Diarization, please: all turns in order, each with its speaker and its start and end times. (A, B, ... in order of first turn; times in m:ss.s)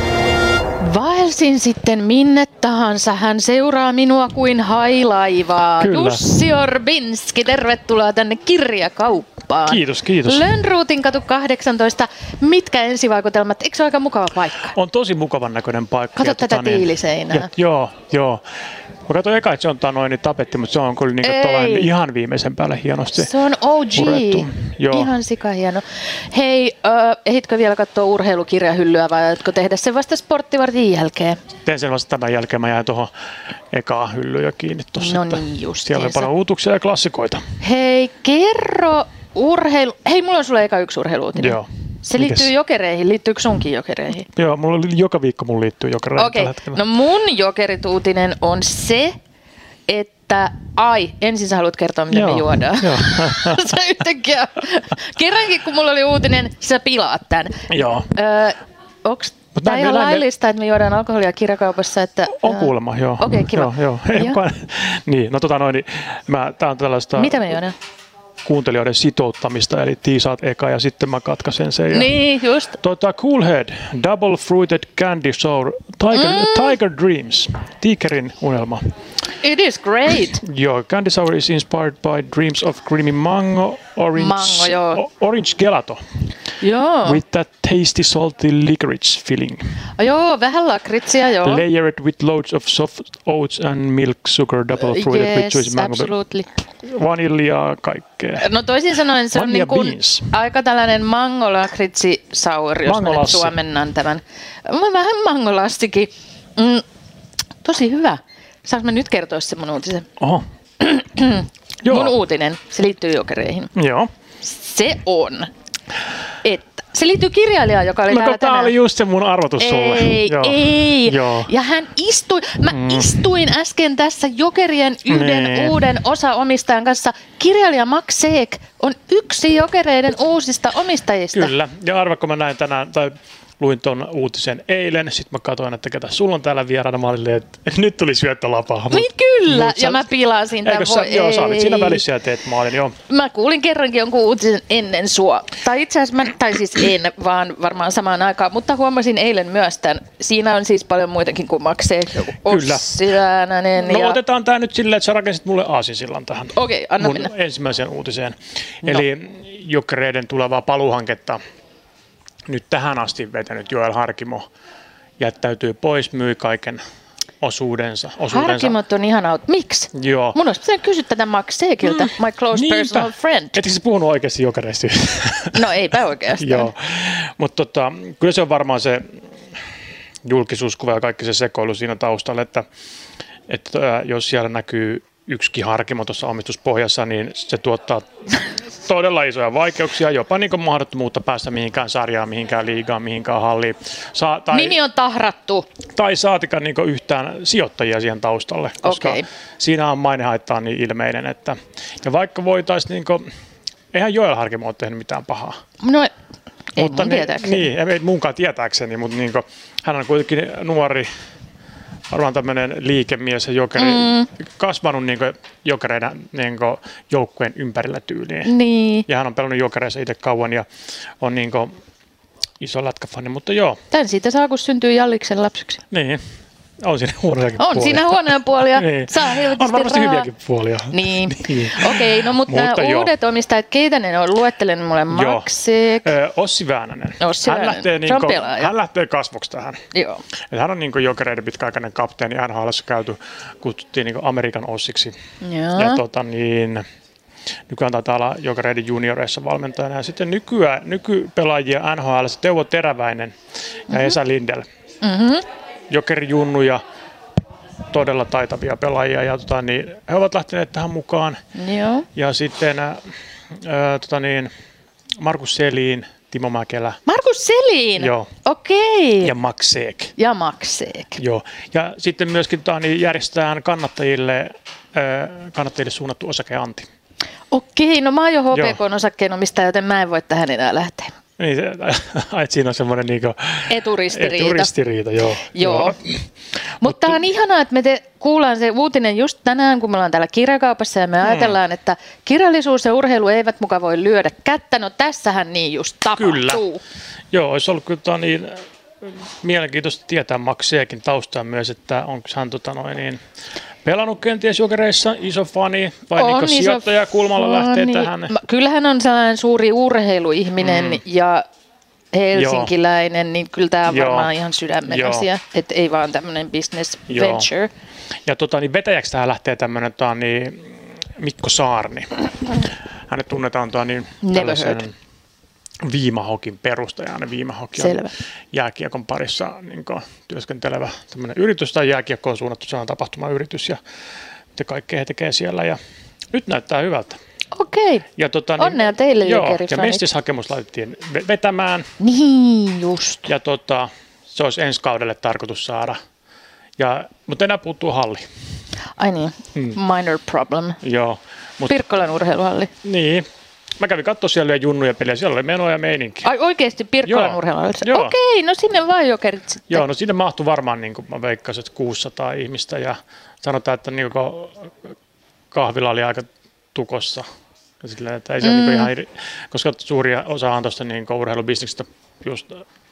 0:00.8-0:14.7 A
0:05.8-0:06.3 B
0:09.7-0:10.5 B
0:14.7-0:18.4 B
0:16.2-0:17.5 A
0:19.0-0:23.3 B
0:21.2-0:21.9 A
0:23.2-0:31.4 A
0:23.9-0:25.1 B
0:31.6-0:33.1 B
0:33.7-0:37.4 B
0:35.0-0:36.3 A
0:37.6-0:44.3 A
0:41.4-0:42.5 B
0:44.3-0:46.8 B
0:46.2-0:49.1 A
0:49.9-1:04.4 A
0:52.1-0:53.8 B
0:57.7-0:58.1 B
0:59.5-1:00.2 B
1:02.3-1:07.6 B
1:07.2-1:07.7 A
1:08.4-1:12.1 B
1:11.9-1:12.8 A
1:12.7-1:18.8 B
1:16.1-1:16.7 A
1:19.4-1:20.4 A
1:20.3-1:26.0 B
1:24.1-1:25.0 A
1:26.6-1:27.2 A
1:27.0-1:29.6 B
1:30.0-1:31.6 A
1:31.4-1:36.1 B
1:34.8-1:36.5 A
1:36.8-1:38.5 B
1:38.4-1:46.8 A
1:39.1-1:40.3 B
1:42.8-1:43.5 B
1:47.6-1:50.1 A
1:50.8-1:53.7 A
1:51.8-1:52.2 B
1:53.7-1:54.1 B
1:54.4-1:55.5 A
1:56.4-1:58.7 A
1:58.1-2:01.5 B
1:59.6-2:11.5 A
2:02.7-2:03.2 B
2:05.1-2:05.8 B
2:11.3-2:20.1 B
2:18.9-2:22.0 A
2:20.6-2:22.9 B
2:23.1-2:34.2 A
2:32.4-2:33.0 B
2:33.8-2:41.4 B
2:36.5-2:37.3 A
2:42.5-2:44.4 B
2:45.2-2:46.8 B
2:47.4-2:48.8 B
2:48.3-2:53.6 A
2:49.9-2:50.4 B
2:51.8-2:55.6 B
2:55.5-2:56.7 A
2:56.4-2:59.2 B
3:00.2-3:02.6 B
3:03.5-3:08.1 B
3:08.8-3:14.8 B
3:14.5-3:15.6 A
3:16.0-3:23.2 B
3:18.8-3:19.2 A
3:23.9-3:25.6 B
3:25.8-3:26.1 A
3:26.7-3:27.7 A
3:26.8-3:31.1 B
3:32.1-3:38.5 B
3:33.8-3:34.3 A
3:38.4-3:39.0 A
3:39.1-3:40.6 B
3:41.2-3:41.7 B
3:42.6-3:43.8 B
3:43.9-3:45.8 A
3:45.9-3:46.2 B
3:46.8-3:53.1 B
3:47.6-3:50.3 A
3:50.9-3:56.1 A
3:55.1-3:55.5 B
3:56.0-3:59.8 B
3:57.2-3:58.7 A
3:59.9-4:00.2 A
4:00.5-4:05.1 B
4:05.4-4:06.0 A
4:05.8-4:06.8 B
4:07.7-4:13.3 B
4:13.9-4:14.6 B
4:13.9-4:14.2 A
4:15.0-4:15.4 A
4:15.9-4:16.8 B
4:17.9-4:21.4 B
4:21.6-4:22.0 A
4:22.2-4:23.0 B
4:23.5-4:24.5 B
4:25.2-4:27.0 B
4:27.1-4:29.3 A
4:28.0-4:28.3 B
4:29.2-4:30.1 B
4:30.2-4:31.2 A
4:31.2-4:36.9 B
4:37.5-4:41.1 A
4:38.5-4:38.8 B
4:41.4-4:46.2 B
4:43.7-4:44.7 A
4:45.5-4:46.0 A
4:46.8-4:56.8 A
4:46.8-4:47.2 B
4:51.2-4:51.6 B
4:56.2-4:56.6 B
4:57.3-5:03.2 B
5:03.8-5:08.3 B
5:06.2-5:11.4 A
5:10.6-5:11.0 B
5:12.1-5:17.7 A
5:12.3-5:12.7 B
5:13.8-5:14.3 B
5:14.9-5:15.3 B
5:17.1-5:17.5 B
5:18.2-5:22.6 B
5:23.1-5:24.9 B
5:24.2-5:24.9 A
5:25.8-5:33.8 B
5:27.8-5:28.1 A
5:34.5-5:35.8 B
5:36.3-5:37.2 B
5:37.5-5:38.0 A
5:38.2-5:41.9 B
5:38.6-5:40.0 A
5:42.0-5:43.3 A
5:43.3-5:46.0 B
5:46.8-5:48.2 B
5:49.0-5:50.8 A
5:50.8-5:51.7 B
5:51.6-5:52.7 A
5:52.8-5:53.3 B
5:53.8-5:56.3 B
5:56.2-5:59.8 A
5:57.0-5:58.1 B
5:59.7-6:04.7 B
6:05.5-6:07.3 B
6:07.8-6:12.6 B
6:08.4-6:08.9 A